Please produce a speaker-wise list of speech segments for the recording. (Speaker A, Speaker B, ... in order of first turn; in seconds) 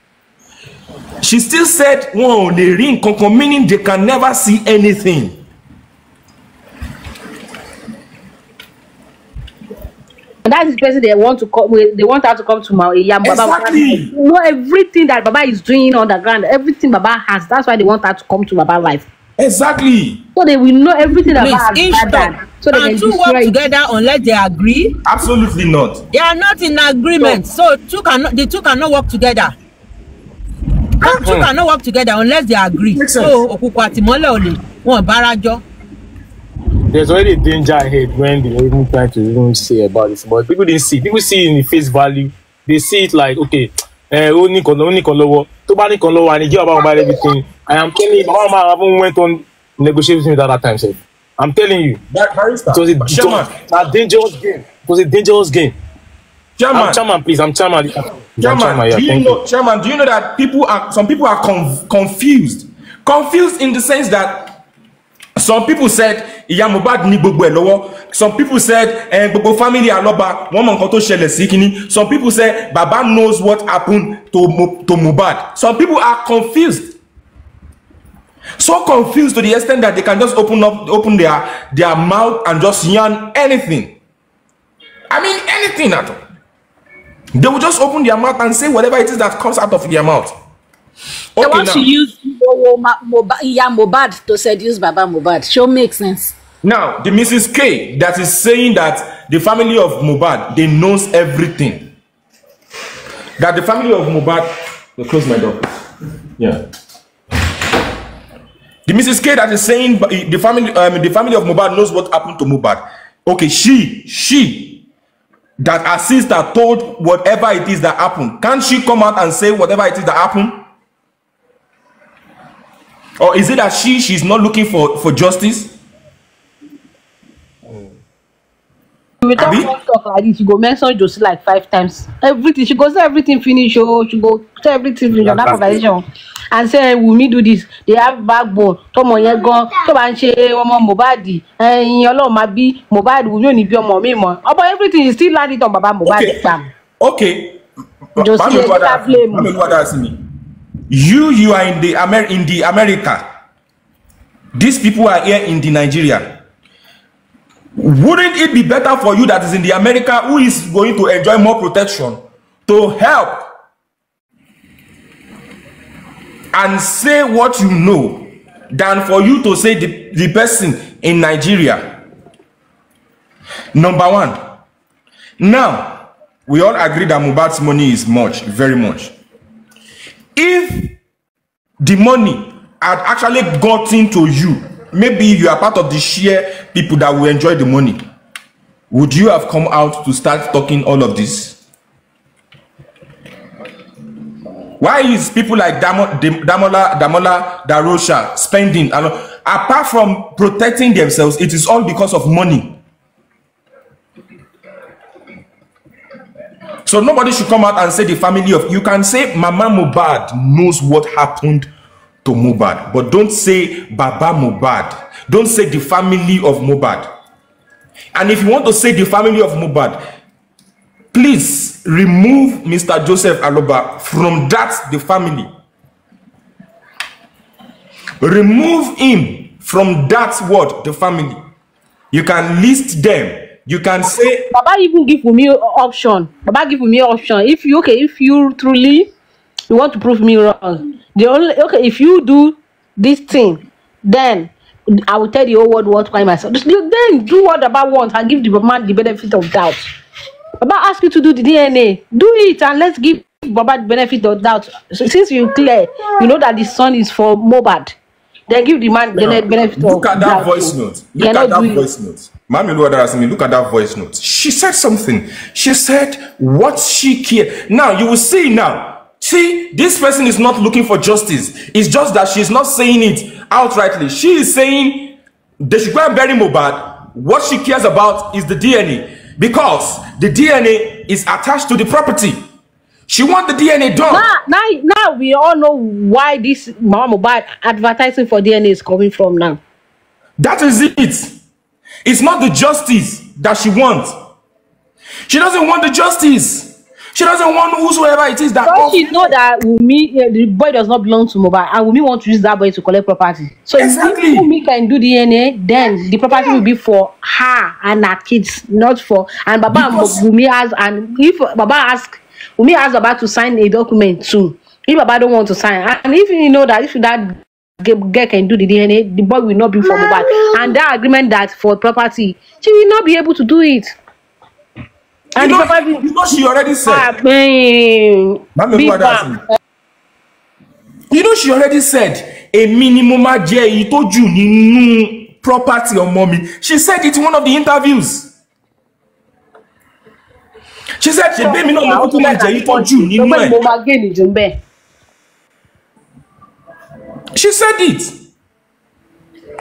Speaker A: 1.2-5.3, 13.2-14.1, 19.4-20.2, 25.0-26.0, 32.9-33.4, 52.1-53.5, 56.6-57.0, 58.4-64.6, 65.4-77.0, 78.6-83.9, 85.1-86.2, 87.3-90.3, 91.3-91.9, 96.6-101.9, 103.4-105.7, 108.8-114.8, 115.6-120.6, 123.2-125.7, 129.4-129.7, 146.0-147.6, 148.2-150.2, 150.9-153.2, 154.5-156.3, 157.8-163.5, 166.5-171.9, 173.7-174.4, 175.4-179.1, 180.3-180.9, 181.8-188.0, 188.9-191.6, 194.8-202.8, 206.8-211.7, 212.2-217.1, 218.1-220.0, 221.1-225.5, 228.2-231.4, 232.1-234.5, 259.1-282.4, 283.1-284.3, 290.4-291.4, 292.0-294.1, 295.3-299.3, 303.8-304.5, 306.3-306.6, 309.7-310.2, 325.4-327.1, 328.5-329.4, 331.1-338.3, 341.0-343.6, 347.3-348.1
Speaker B: 10.4-19.1, 20.4-23.6, 129.2-146.7, 148.2-149.5, 234.5-239.1, 239.7-249.8, 250.6-257.9, 258.5-261.9, 284.1-289.6, 298.6-323.9, 325.4-329.5, 341.3-344.6
Speaker C: 21.3-24.9, 26.1-29.5, 31.0-35.6
Speaker D: 31.2-31.5, 36.9-52.0, 52.7-55.8, 56.7-59.4
Speaker E: 91.4-96.3